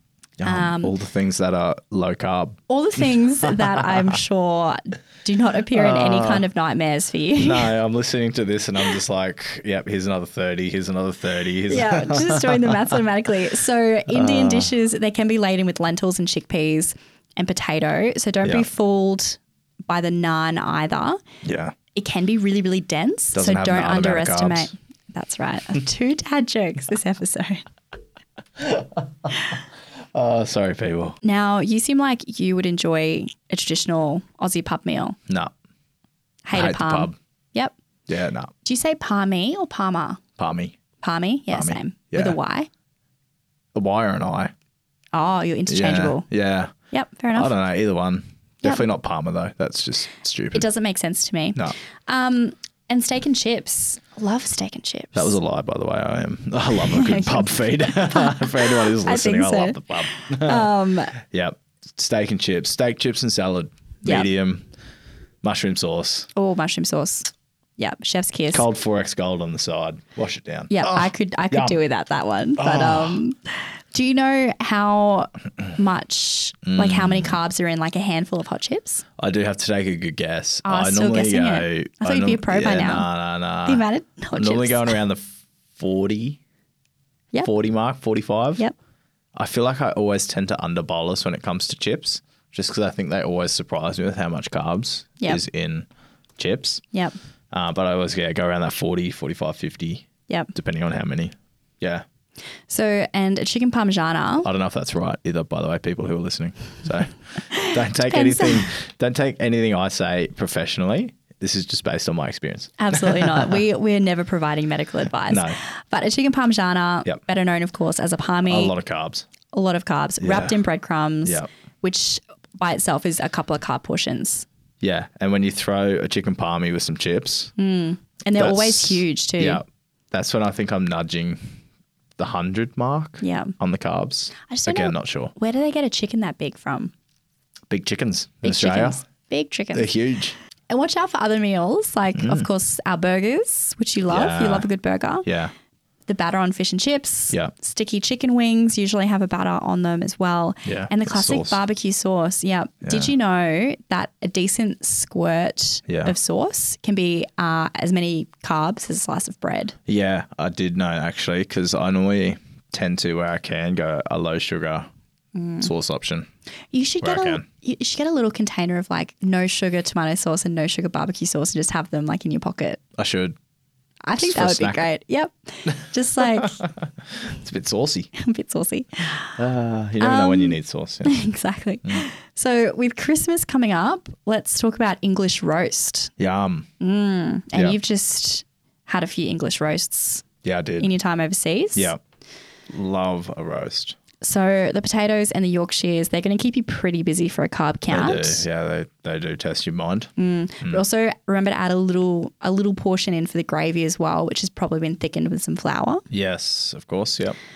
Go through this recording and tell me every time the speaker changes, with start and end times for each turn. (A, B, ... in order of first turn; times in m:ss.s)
0:00.4-0:04.2 A
0:00.4-0:01.0 B
0:02.7-0:07.7 B
0:05.7-0:06.5 A
0:07.4-0:13.0 A
0:11.7-0:21.2 B
0:14.1-0:14.7 A
0:21.4-0:21.8 A
0:21.9-0:27.6 B
0:23.3-0:24.7 A
0:28.6-0:29.6 A
0:30.1-0:31.2 A
0:31.2-0:35.2 B
0:35.3-0:35.5 A
0:36.4-0:37.7 B
0:36.5-0:37.2 A
0:38.1-0:38.5 A
0:38.6-0:40.2 B
0:40.4-0:40.8 A
0:41.0-0:42.7 B
0:41.5-0:42.4 A
0:43.7-0:44.5 A
0:45.1-0:46.3 B
0:45.7-0:46.7 A
0:46.9-0:47.5 B
0:47.3-0:50.7 A
0:50.5-0:55.4 B
0:55.1-1:04.7 A
0:56.8-1:01.2 B
1:05.4-1:06.3 A
1:06.4-1:08.6 B
1:08.5-1:11.8 A
1:10.7-1:19.0 B
1:12.6-1:13.2 A
1:16.7-1:17.4 A
1:19.2-1:23.8 A
1:20.6-1:23.1 B
1:23.6-1:25.0 B
1:24.4-1:26.4 A
1:27.4-1:28.6 A
1:29.4-1:35.9 A
1:36.4-1:36.8 A
1:37.5-1:42.0 A
1:42.7-1:44.5 B
1:44.4-1:53.6 A
1:47.5-1:48.7 B
1:52.8-1:58.8 B
1:55.3-1:55.6 A
1:58.4-1:59.3 A
1:59.5-2:04.5 B
2:00.2-2:00.6 A
2:04.8-2:07.5 A
2:07.6-2:09.6 B
2:08.4-2:11.5 A
2:12.2-2:15.3 A
2:13.2-2:13.5 B
2:14.5-2:16.9 B
2:17.7-2:19.0 A
2:18.4-2:19.9 B
2:19.7-2:20.4 A
2:20.7-2:25.3 B
2:22.2-2:22.5 A
2:24.1-2:24.7 A
2:25.2-2:25.5 A
2:26.1-2:39.8 B
2:30.6-2:31.6 A
2:32.8-2:33.1 A
2:35.9-2:36.2 A
2:39.9-2:44.9 A
2:45.4-2:45.7 B
2:45.6-2:46.3 A
2:46.7-2:52.8 B
2:47.0-2:47.4 A
2:53.0-2:53.4 A
2:54.1-2:56.6 B
2:54.2-2:54.9 A
2:56.2-2:58.1 A
2:58.2-2:59.4 B
2:59.4-3:01.2 A
3:00.0-3:06.1 B
3:06.2-3:06.7 A
3:06.8-3:10.2 B
3:10.4-3:10.9 A
3:10.8-3:11.9 B
3:12.7-3:14.0 A
3:14.2-3:18.4 B
3:17.9-3:20.1 A
3:20.2-3:26.0 B
3:26.1-3:27.4 A